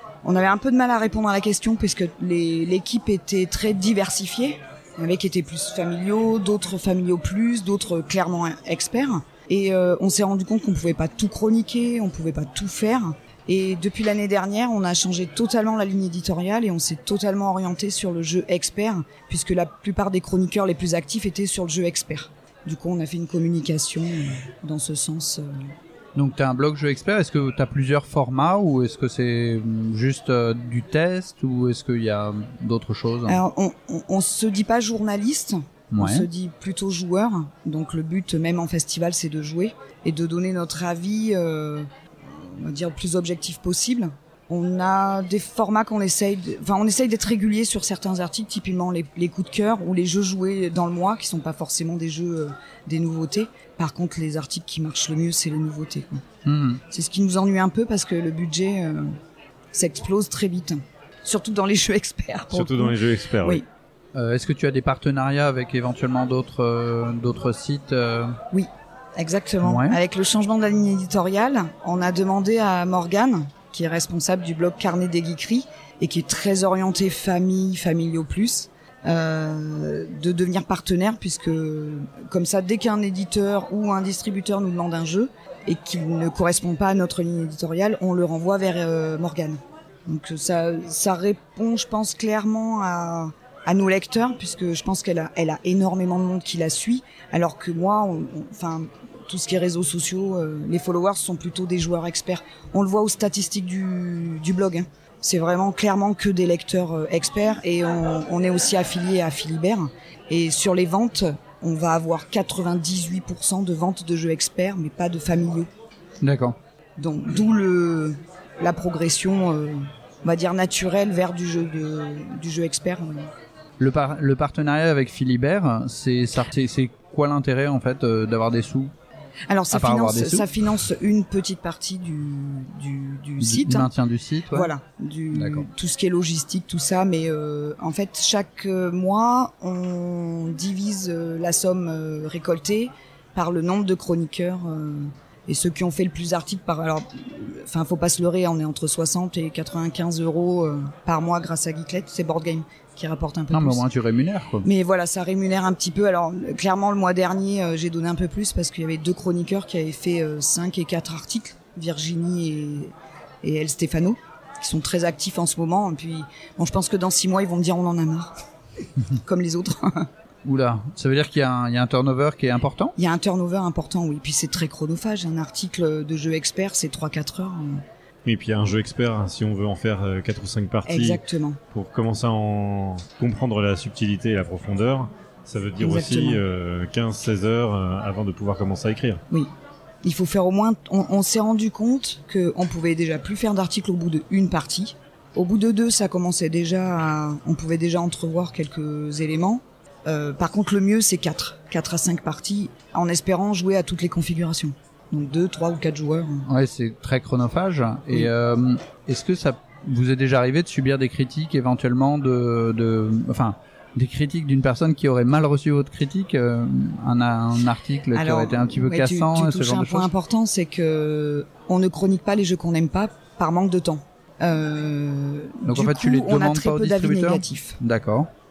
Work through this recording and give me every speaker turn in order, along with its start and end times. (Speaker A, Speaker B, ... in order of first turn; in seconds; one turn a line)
Speaker A: 0.2-25.5
Speaker B: 26.1-33.4
Speaker A: 33.2-56.2
Speaker B: 35.9-36.3
Speaker B: 56.4-56.8
Speaker A: 56.9-59.0
Speaker A: 59.7-63.6
Speaker C: 62.5-63.6
Speaker B: 64.1-68.3
Speaker A: 68.5-115.7
Speaker B: 69.6-70.0
Speaker B: 116.2-116.5
Speaker A: 117.0-123.3
Speaker B: 123.8-128.9
Speaker A: 129.5-133.9
Speaker B: 129.7-130.5
Speaker B: 133.4-134.7
Speaker A: 134.5-153.8
Speaker B: 135.3-135.7
Speaker B: 153.5-154.7
Speaker A: 154.6-168.3
Speaker A: 169.2-170.1
Speaker B: 170.4-172.9
Speaker A: 173.0-177.8
Speaker C: 178.2-181.2
Speaker A: 180.8-181.6
Speaker C: 181.7-189.2
Speaker A: 185.8-186.4
Speaker A: 190.0-206.5
Speaker B: 206.4-220.1
Speaker A: 218.1-227.8
Speaker B: 225.7-228.3